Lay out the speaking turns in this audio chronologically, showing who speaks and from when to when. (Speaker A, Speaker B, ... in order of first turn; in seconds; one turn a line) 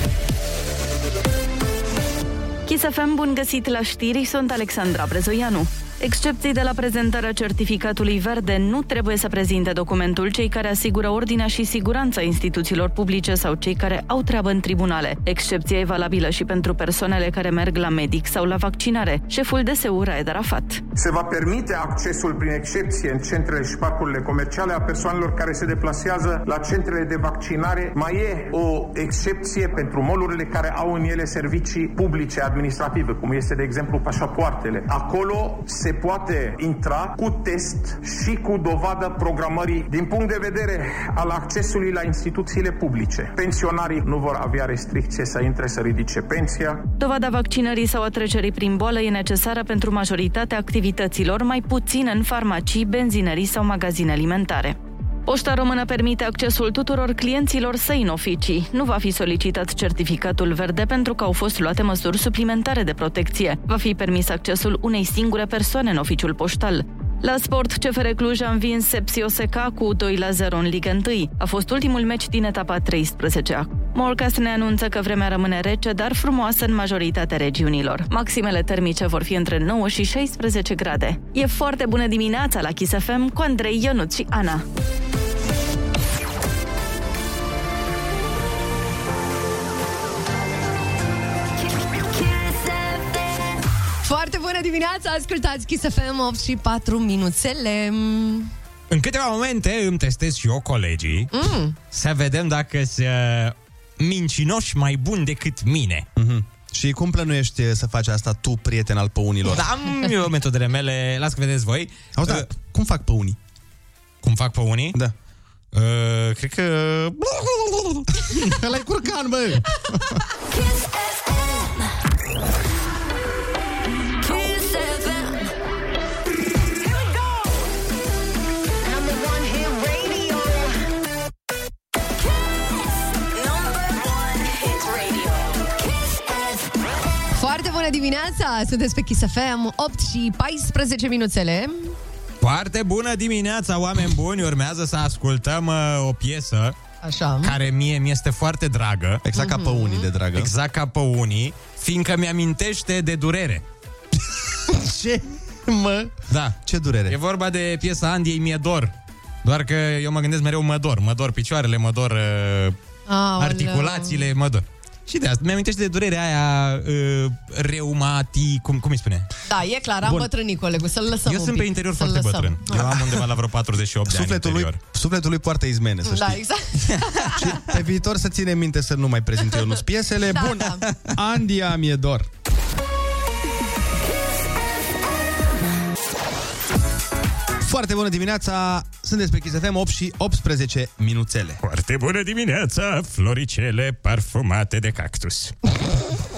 Speaker A: 2.7-20.8
Speaker B: 20.9-46.9
Speaker A: 47.0-84.6
Speaker C: 91.7-93.5
Speaker D: 94.0-98.5
Speaker E: 98.9-101.3
Speaker D: 101.3-101.8
Speaker E: 101.9-106.0
Speaker F: 106.2-109.7
Speaker E: 109.5-112.5
Speaker F: 112.2-113.4
Speaker E: 114.2-115.0
Speaker E: 115.7-118.5
Speaker F: 118.3-120.2
Speaker C: 120.4-121.9
Speaker C: 124.2-125.5
Speaker C: 129.1-130.5
Speaker C: 133.2-136.6
Speaker D: 137.3-142.0
Speaker E: 142.4-146.8
Speaker D: 147.0-147.5
Speaker E: 147.4-149.2
Speaker F: 149.2-150.5
Speaker D: 149.3-150.1
Speaker E: 150.3-153.6
Speaker F: 154.7-157.2
Speaker E: 156.3-158.9
Speaker E: 159.4-162.8
Speaker D: 163.1-164.2
Speaker E: 163.4-169.3
Speaker D: 169.5-172.9
Speaker E: 171.2-174.8
Speaker F: 174.1-176.4
Speaker D: 176.0-177.4
Speaker F: 177.3-182.3
Speaker D: 180.3-180.8
Speaker F: 187.6-191.6
Speaker E: 191.6-195.5